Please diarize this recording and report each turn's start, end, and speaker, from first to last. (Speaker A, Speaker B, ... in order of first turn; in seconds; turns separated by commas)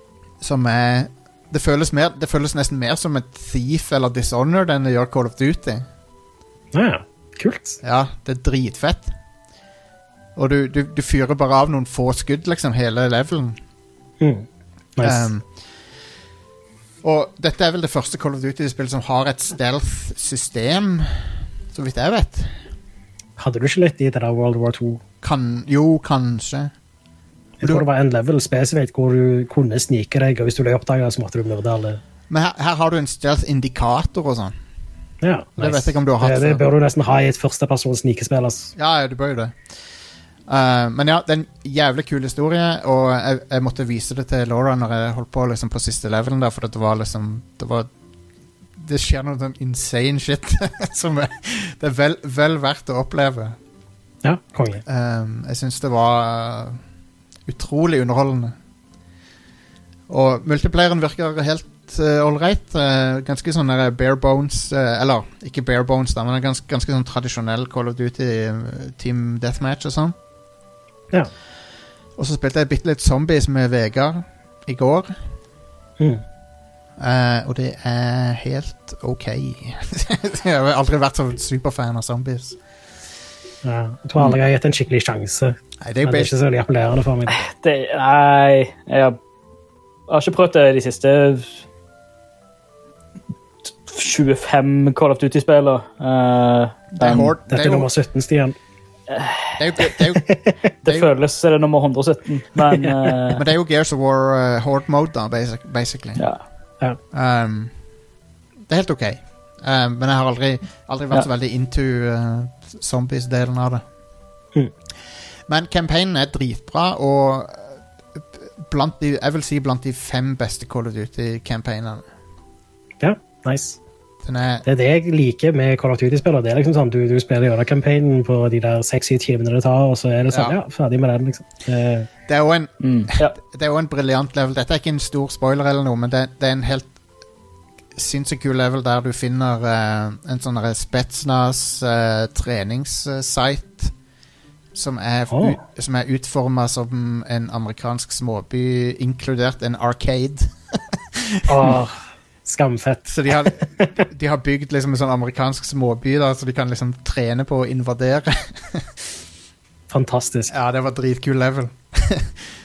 Speaker A: 0.4-5.9, Speaker B: 6.7-7.8, Speaker A: 7.8-9.1, Speaker A: 10.4-13.6, Speaker B: 14.2-15.3, Speaker A: 15.0-15.4, Speaker A: 17.0-22.6, Speaker B: 23.4-25.0, Speaker A: 25.2-26.7, Speaker B: 27.6-32.0, Speaker A: 32.3-34.5, Speaker B: 35.2-38.7, Speaker A: 35.6-36.6, Speaker A: 38.8-39.5, Speaker A: 40.5-47.9, Speaker A: 48.8-53.6, Speaker B: 54.2-54.8, Speaker A: 54.9-56.8, Speaker A: 57.5-58.5, Speaker A: 60.1-70.2, Speaker A: 72.2-75.1, Speaker A: 77.0-82.6, Speaker B: 83.6-87.4, Speaker A: 85.8-86.3, Speaker C: 87.3-89.2, Speaker C: 90.1-91.6, Speaker C: 93.8-97.3, Speaker A: 97.0-97.9, Speaker B: 97.5-98.6, Speaker C: 99.1-99.9, Speaker A: 99.6-101.1, Speaker B: 100.3-100.6, Speaker C: 100.8-103.4, Speaker A: 103.3-106.2, Speaker A: 107.1-107.7, Speaker A: 108.7-113.8, Speaker A: 115.5-122.0, Speaker B: 123.0-123.8, Speaker A: 124.2-124.7, Speaker B: 124.7-132.1, Speaker A: 130.3-130.6, Speaker A: 132.3-136.9, Speaker C: 132.8-133.3, Speaker A: 138.0-143.9, Speaker A: 144.8-150.5, Speaker B: 145.3-145.6, Speaker A: 151.1-151.7, Speaker B: 151.5-153.9, Speaker A: 153.1-158.9, Speaker B: 159.9-160.5, Speaker A: 160.5-162.4